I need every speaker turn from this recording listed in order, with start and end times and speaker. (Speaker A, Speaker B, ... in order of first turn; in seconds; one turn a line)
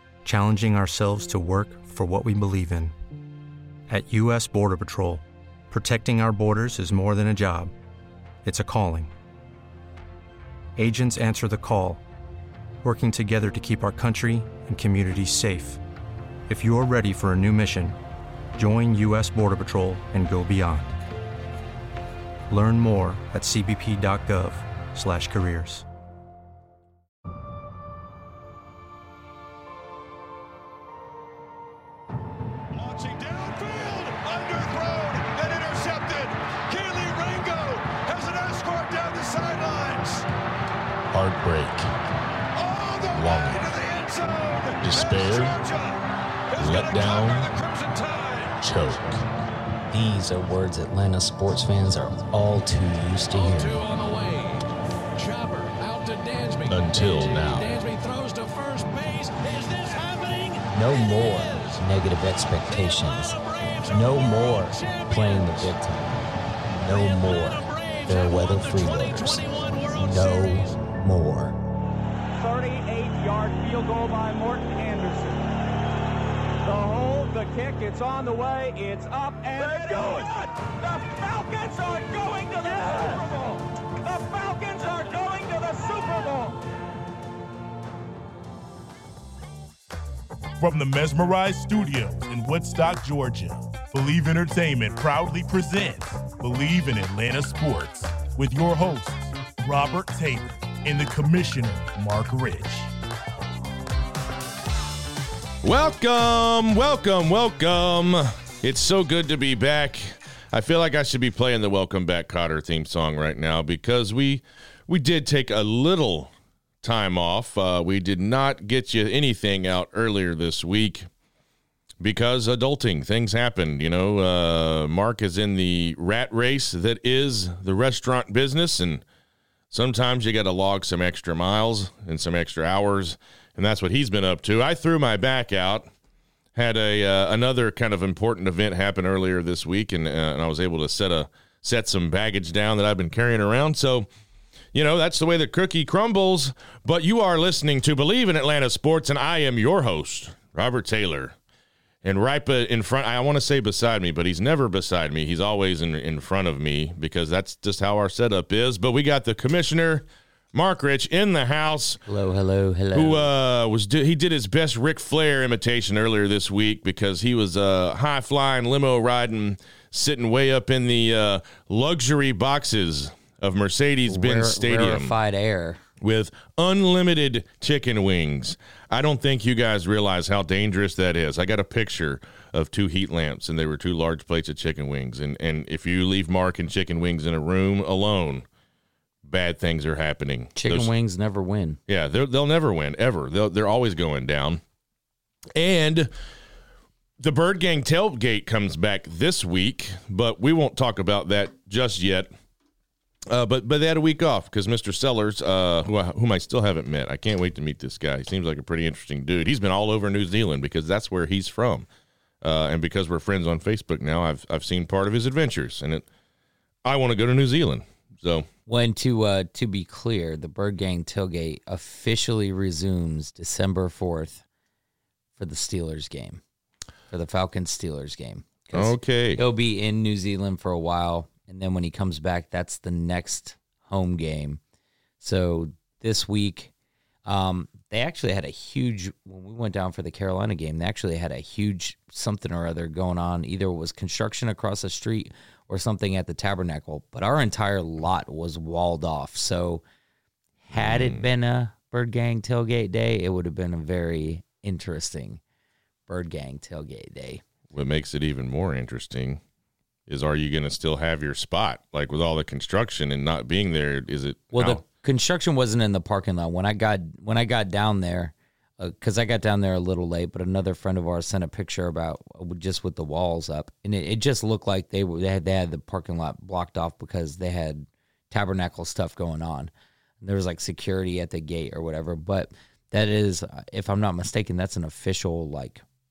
Speaker A: 0.2-2.9
Speaker A: 3.9-7.7
Speaker A: 8.4-9.1
Speaker A: 10.8-12.0
Speaker A: 12.8-15.8
Speaker A: 16.5-18.0
Speaker A: 18.6-21.0
Speaker A: 22.5-25.8
Speaker B: 32.7-40.2
Speaker C: 41.1-41.9
Speaker B: 42.5-48.6
Speaker C: 43.1-43.7
Speaker C: 44.8-45.6
Speaker C: 46.6-47.5
Speaker C: 48.6-49.2
Speaker D: 49.9-53.8
Speaker E: 53.3-61.8
Speaker C: 56.7-57.8
Speaker D: 60.7-66.1
Speaker E: 62.5-65.7
Speaker D: 66.7-71.6
Speaker E: 66.8-70.8
Speaker F: 72.3-75.5
Speaker F: 76.6-86.6
Speaker B: 90.6-102.9
Speaker C: 105.6-121.1
Speaker C: 122.0-129.0
Speaker C: 129.7-135.9
Speaker C: 136.5-144.1
Speaker C: 144.7-151.3
Speaker C: 152.0-162.0
Speaker D: 162.1-163.3
Speaker C: 162.9-175.1
Speaker D: 174.1-175.8
Speaker C: 176.0-188.4
Speaker C: 189.2-190.9
Speaker D: 190.6-191.8
Speaker C: 191.9-194.6
Speaker C: 195.5-196.1
Speaker C: 197.2-202.3
Speaker C: 203.3-211.9
Speaker C: 212.4-216.1
Speaker C: 216.8-218.5
Speaker D: 218.7-224.4
Speaker D: 225.3-226.4
Speaker D: 227.1-234.6
Speaker C: 228.7-229.4
Speaker D: 235.2-236.7
Speaker D: 237.2-249.8
Speaker D: 250.6-255.4
Speaker C: 250.7-251.2
Speaker D: 256.1-257.4
Speaker C: 257.7-259.4
Speaker C: 260.1-264.8
Speaker D: 264.5-285.8